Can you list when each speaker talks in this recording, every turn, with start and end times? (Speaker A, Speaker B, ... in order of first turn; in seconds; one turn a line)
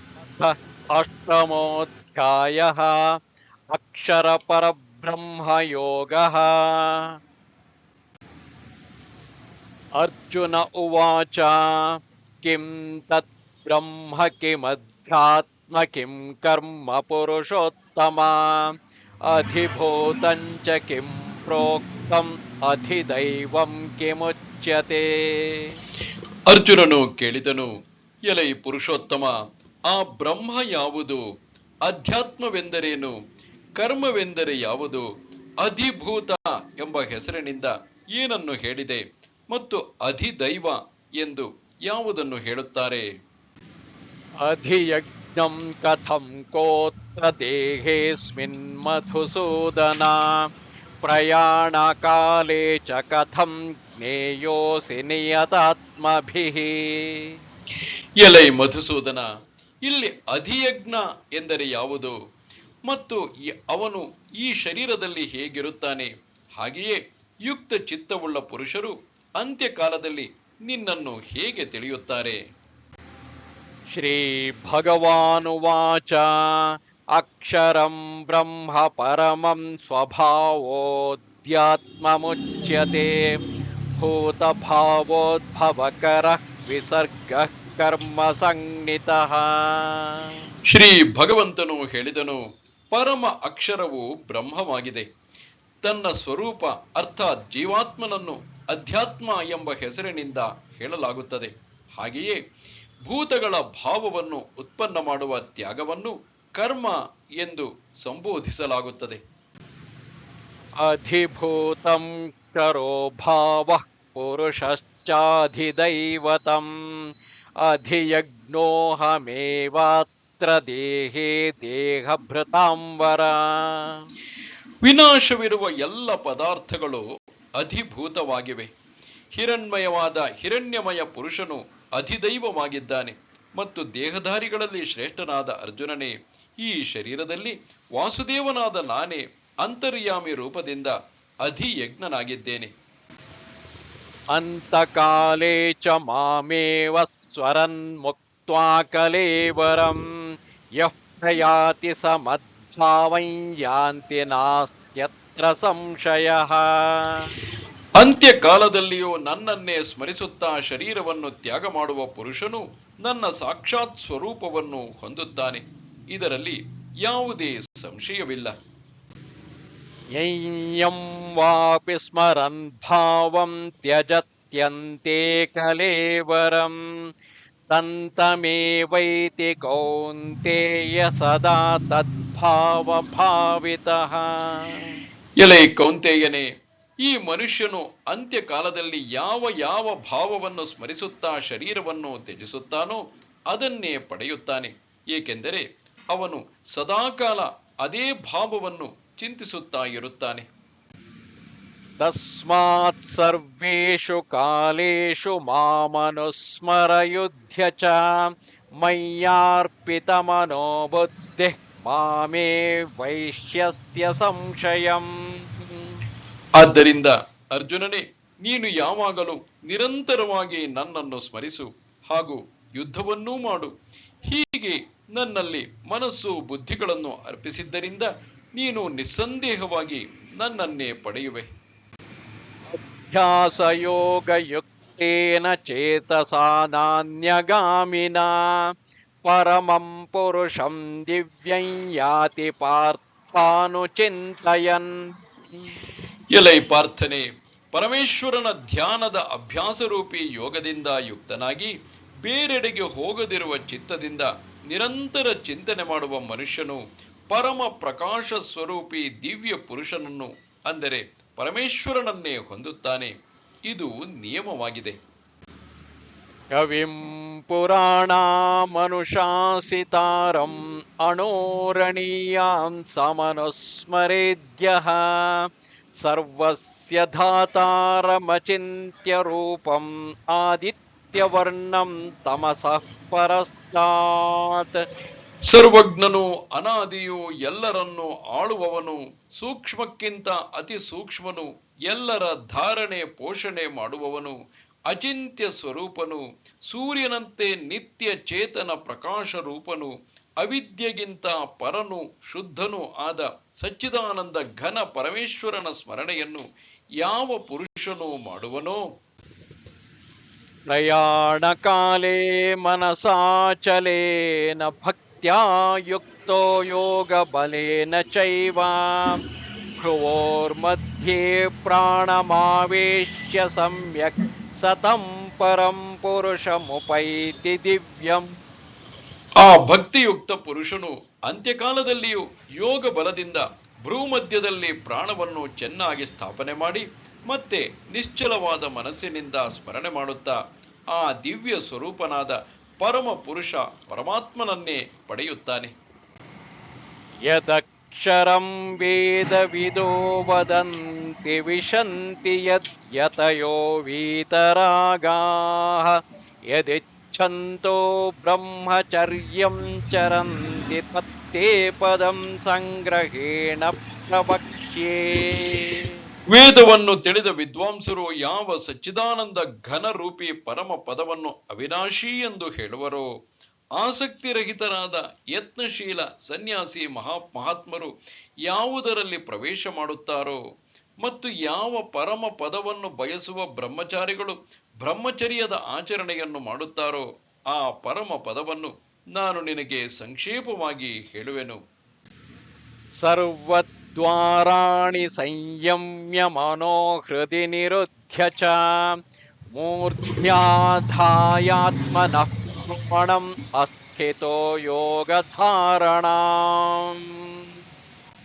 Speaker A: 0.3-3.0
Speaker A: 3.7-7.2
Speaker A: 10.0-18.7
Speaker A: 19.3-25.8
Speaker B: 26.5-27.7
Speaker B: 28.3-29.4
Speaker B: 29.9-31.2
Speaker B: 31.8-33.1
Speaker B: 33.8-35.0
Speaker B: 35.6-43.1
Speaker A: 44.4-50.4
Speaker A: 51.0-57.4
Speaker B: 58.2-59.3
Speaker B: 59.9-62.1
Speaker B: 62.9-72.4
Speaker A: 73.9-83.2
Speaker A: 84.0-90.3
Speaker B: 90.7-92.4
Speaker B: 92.9-95.1
Speaker B: 95.8-102.4
Speaker B: 103.0-109.2
Speaker A: 110.8-116.7
Speaker A: 117.6-124.0
Speaker B: 124.8-127.0
Speaker B: 127.6-128.7
Speaker B: 129.3-142.7
Speaker A: 144.3-150.1
Speaker A: 150.8-157.3
Speaker B: 158.0-168.5
Speaker A: 170.2-176.8
Speaker A: 177.7-185.0
Speaker B: 185.4-186.5
Speaker B: 187.0-200.4
Speaker A: 202.0-208.3
Speaker A: 208.8-215.9
Speaker B: 216.6-223.7
Speaker B: 224.3-231.5
Speaker A: 232.7-238.7
Speaker A: 239.2-245.0
Speaker B: 246.3-251.7
Speaker B: 252.2-263.1
Speaker B: 263.7-264.9
Speaker A: 266.5-275.5
Speaker A: 276.0-284.8
Speaker B: 285.5-294.4
Speaker B: 294.9-306.4
Speaker B: 307.0-308.8
Speaker A: 310.7-319.2
Speaker A: 319.8-328.3
Speaker B: 329.4-340.4
Speaker B: 340.9-345.7
Speaker A: 347.3-356.0
Speaker A: 356.5-365.9
Speaker B: 366.3-373.1
Speaker B: 373.8-377.9
Speaker B: 378.5-380.4
Speaker B: 381.0-391.6
Speaker A: 393.0-398.9
Speaker A: 399.5-407.4